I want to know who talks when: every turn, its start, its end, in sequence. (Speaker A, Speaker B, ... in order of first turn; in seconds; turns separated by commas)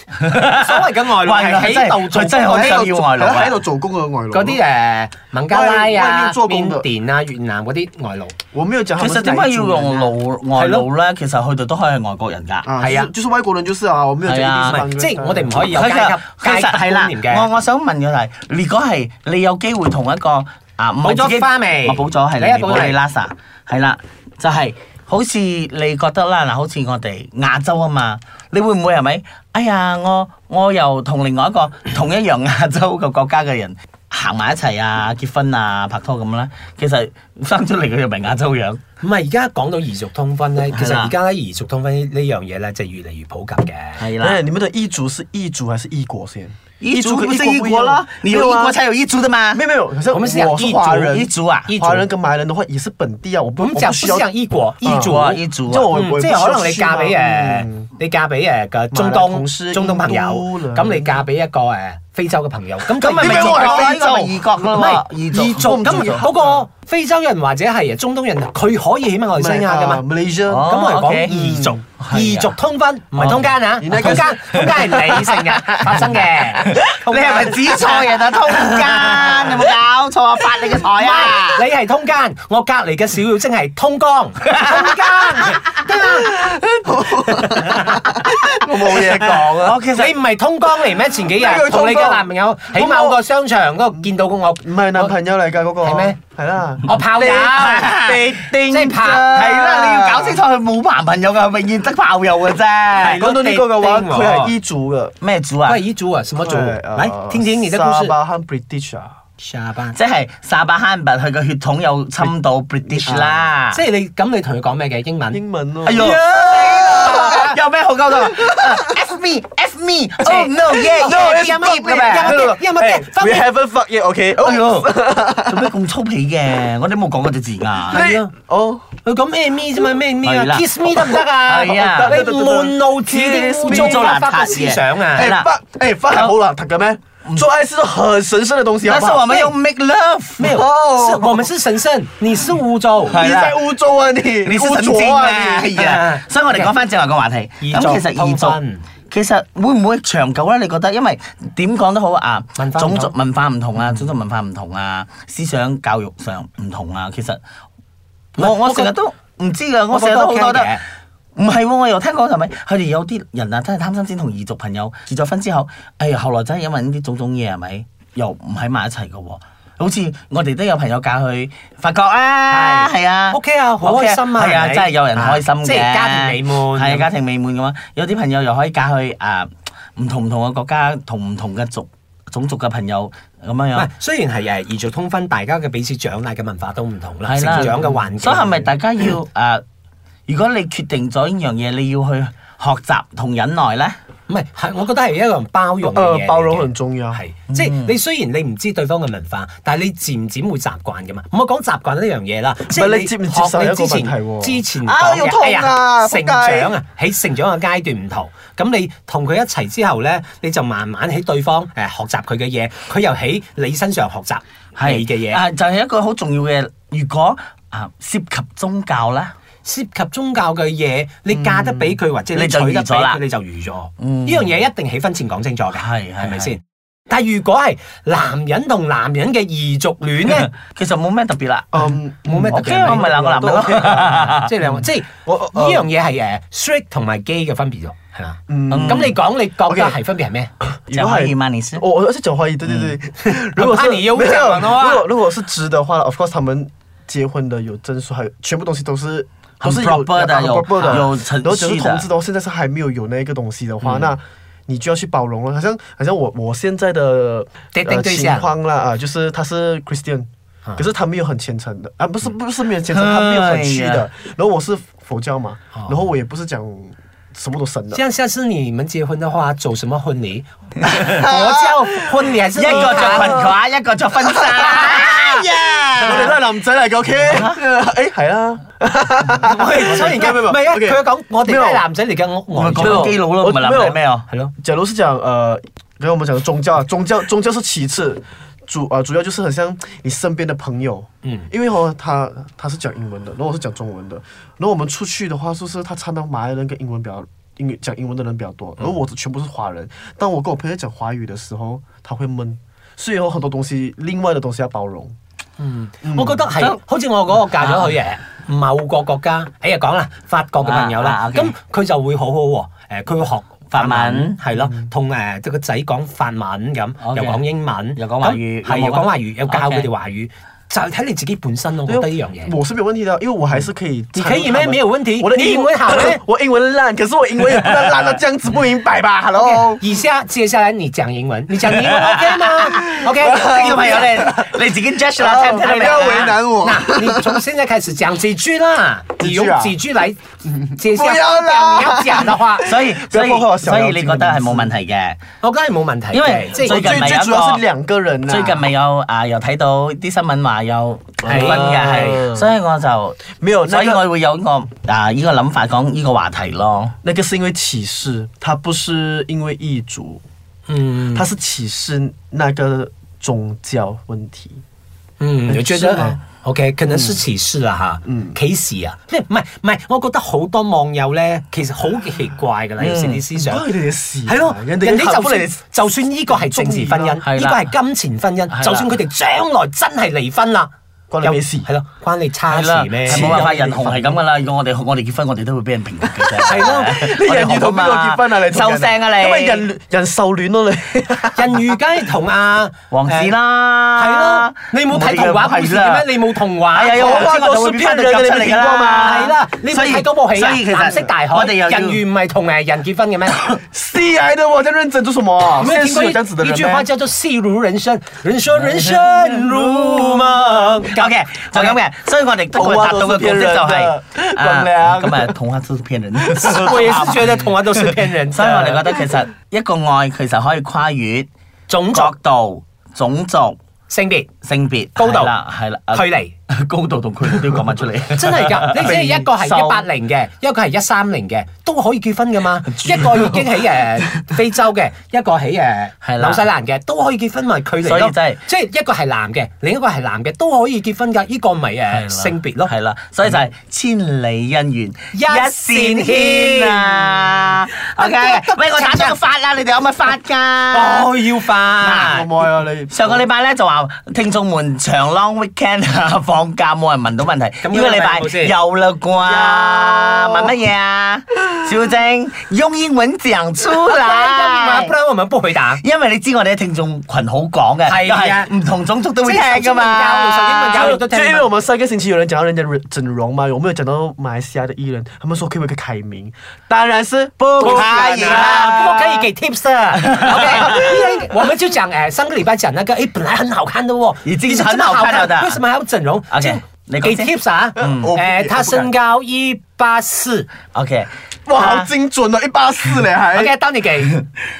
Speaker A: 0.2-3.6, Speaker B: 0.5-2.9, Speaker C: 2.1-4.6, Speaker B: 4.3-8.3, Speaker C: 5.5-6.8, Speaker C: 8.5-10.2, Speaker A: 9.0-12.7, Speaker B: 10.6-10.9, Speaker C: 12.6-15.7, Speaker B: 12.8-13.1, Speaker A: 14.2-14.8, Speaker B: 14.7-17.5, Speaker A: 15.7-38.8, Speaker B: 21.0-23.0, Speaker B: 39.0-44.0, Speaker A: 40.7-41.1, Speaker A: 44.0-44.4, Speaker C: 44.2-48.8, Speaker A: 46.8-49.6, Speaker C: 49.5-54.3, Speaker B: 50.1-52.1, Speaker A: 51.1-51.7, Speaker B: 53.6-64.0, Speaker C: 54.8-57.9, Speaker A: 55.0-55.9, Speaker C: 58.9-61.2, Speaker A: 62.9-66.3, Speaker C: 63.0-64.4, Speaker B: 64.6-70.0, Speaker C: 65.5-66.7, Speaker C: 69.3-70.7, Speaker A: 70.5-72.5, Speaker B: 70.6-78.0, Speaker C: 71.3-71.8, Speaker A: 73.2-81.6, Speaker C: 73.8-75.1, Speaker B: 81.0-86.4, Speaker A: 84.5-85.5, Speaker C: 86.2-89.8, Speaker A: 88.6-90.1, Speaker B: 89.9-95.1, Speaker C: 91.3-93.2, Speaker C: 94.6-97.0, Speaker B: 95.8-96.2, Speaker B: 96.8-99.5, Speaker A: 97.0-103.4, Speaker C: 99.0-100.4, Speaker B: 103.0-104.5, Speaker C: 103.1-105.2, Speaker A: 105.2-105.8, Speaker B: 105.7-108.2, Speaker C: 106.4-109.2, Speaker B: 109.4-110.0, Speaker A: 109.9-113.8, Speaker C: 112.9-113.5, Speaker B: 113.7-115.4, Speaker C: 115.3-117.5, Speaker A: 115.8-122.5, Speaker B: 115.9-117.5, Speaker C: 118.2-119.0, Speaker B: 120.2-123.5, Speaker C: 120.7-125.7, Speaker A: 124.4-128.0, Speaker C: 127.9-128.9, Speaker B: 127.9-128.3, Speaker B: 129.0-135.3, Speaker A: 130.2-132.2, Speaker C: 131.8-134.0, Speaker A: 133.7-135.5, Speaker C: 135.2-139.5, Speaker A: 138.8-140.6, Speaker B: 140.4-143.2, Speaker C: 140.4-141.5, Speaker A: 143.1-143.6, Speaker C: 143.1-145.8, Speaker A: 144.4-148.6, Speaker B: 145.8-146.7, Speaker B: 147.6-148.8, Speaker A: 149.1-157.4, Speaker B: 152.6-153.1, Speaker B: 158.4-158.9, Speaker A: 158.4-160.8, Speaker B: 159.9-160.8, Speaker A: 161.3-183.9, Speaker B: 172.5-177.1, Speaker B: 183.7-188.7, Speaker A: 187.3-189.6, Speaker A: 190.3-194.0, Speaker B: 194.3-215.4, Speaker C: 195.8-197.2, Speaker A: 197.5-197.9, Speaker C: 202.7-206.7, Speaker A: 214.8-219.3, Speaker B: 219.6-230.5, Speaker C: 221.3-222.0, Speaker A: 222.3-223.2, Speaker A: 224.0-224.5, Speaker A: 225.7-226.5, Speaker A: 230.2-231.8, Speaker C: 231.7-234.5, Speaker B: 232.2-233.1, Speaker A: 232.4-234.5, Speaker B: 234.0-240.5, Speaker C: 235.2-235.9, Speaker C: 238.5-240.0, Speaker A: 238.7-239.2, Speaker C: 240.7-268.0, Speaker A: 240.9-241.8, Speaker B: 243.2-245.1, Speaker A: 249.6-252.1, Speaker B: 250.8-251.0, Speaker B: 253.8-254.1, Speaker B: 257.7-258.5, Speaker A: 262.9-264.1, Speaker B: 267.9-273.5, Speaker C: 271.2-271.9, Speaker A: 272.5-276.4, Speaker C: 272.7-273.5, Speaker C: 274.5-275.3, Speaker B: 274.7-275.4, Speaker C: 276.0-281.9, Speaker B: 276.0-276.4, Speaker A: 277.3-277.6, Speaker B: 279.5-283.2, Speaker A: 282.5-284.2, Speaker C: 282.8-284.0, Speaker C: 284.6-305.1, Speaker B: 291.2-291.5, Speaker B: 305.6-322.6, Speaker C: 306.0-306.5, Speaker A: 307.6-307.9, Speaker A: 310.6-311.5, Speaker A: 313.7-314.4, Speaker C: 314.5-314.9, Speaker A: 317.0-317.4, Speaker A: 318.0-319.9, Speaker C: 321.9-329.8, Speaker B: 324.1-326.2, Speaker B: 329.8-333.7, Speaker A: 331.6-336.4, Speaker C: 332.7-334.5, Speaker C: 335.2-337.4, Speaker B: 335.9-342.7, Speaker C: 339.2-339.8, Speaker C: 340.8-344.8, Speaker A: 342.6-345.2, Speaker B: 345.4-347.1, Speaker A: 346.1-347.6, Speaker C: 346.6-348.7, Speaker A: 348.3-356.9, Speaker C: 351.2-352.5, Speaker B: 351.2-352.2, Speaker C: 353.3-354.1, Speaker C: 357.0-360.2, Speaker B: 360.7-361.3, Speaker C: 361.1-364.6, Speaker B: 365.2-373.6, Speaker C: 365.5-366.2, Speaker A: 365.9-366.2, Speaker C: 368.0-368.4, Speaker A: 372.8-373.5, Speaker C: 373.4-375.6, Speaker B: 374.2-380.7, Speaker A: 374.7-375.2, Speaker C: 376.3-377.2, Speaker A: 377.2-377.7, Speaker A: 378.5-378.9, Speaker C: 381.1-381.7, Speaker B: 381.2-383.6, Speaker A: 382.5-389.6, Speaker C: 383.1-384.2, Speaker C: 386.2-391.6, Speaker B: 386.5-386.9, Speaker B: 391.4-393.3, Speaker A: 392.9-396.1, Speaker B: 394.0-403.4, Speaker A: 396.7-402.0, Speaker C: 397.0-399.1, Speaker C: 403.6-406.9, Speaker B: 405.6-411.8, Speaker A: 408.6-417.3, Speaker C: 412.5-415.4, Speaker B: 416.5-418.9, Speaker A: 418.2-421.3, Speaker B: 421.7-422.1, Speaker A: 421.9-423.6, Speaker B: 423.9-424.3, Speaker A: 424.4-429.9, Speaker B: 424.9-425.3, Speaker B: 425.9-426.3, Speaker B: 428.1-442.7, Speaker A: 432.7-433.4, Speaker A: 436.0-436.4, Speaker A: 437.8-438.4, Speaker A: 441.9-451.1, Speaker B: 445.1-449.2, Speaker B: 450.7-452.3, Speaker A: 451.8-452.2, Speaker C: 452.0-453.2, Speaker A: 452.9-464.9, Speaker B: 457.6-458.5, Speaker C: 459.2-460.6, Speaker B: 463.8-465.8, Speaker A: 465.8-470.9, Speaker B: 467.9-468.5, Speaker B: 469.2-471.5, Speaker C: 470.7-478.6, Speaker A: 477.4-479.3, Speaker B: 477.6-490.5, Speaker A: 480.1-480.9, Speaker A: 484.2-485.6, Speaker A: 486.3-488.1, Speaker C: 487.8-488.9, Speaker A: 490.7-491.9, Speaker C: 491.5-493.5, Speaker B: 493.3-494.1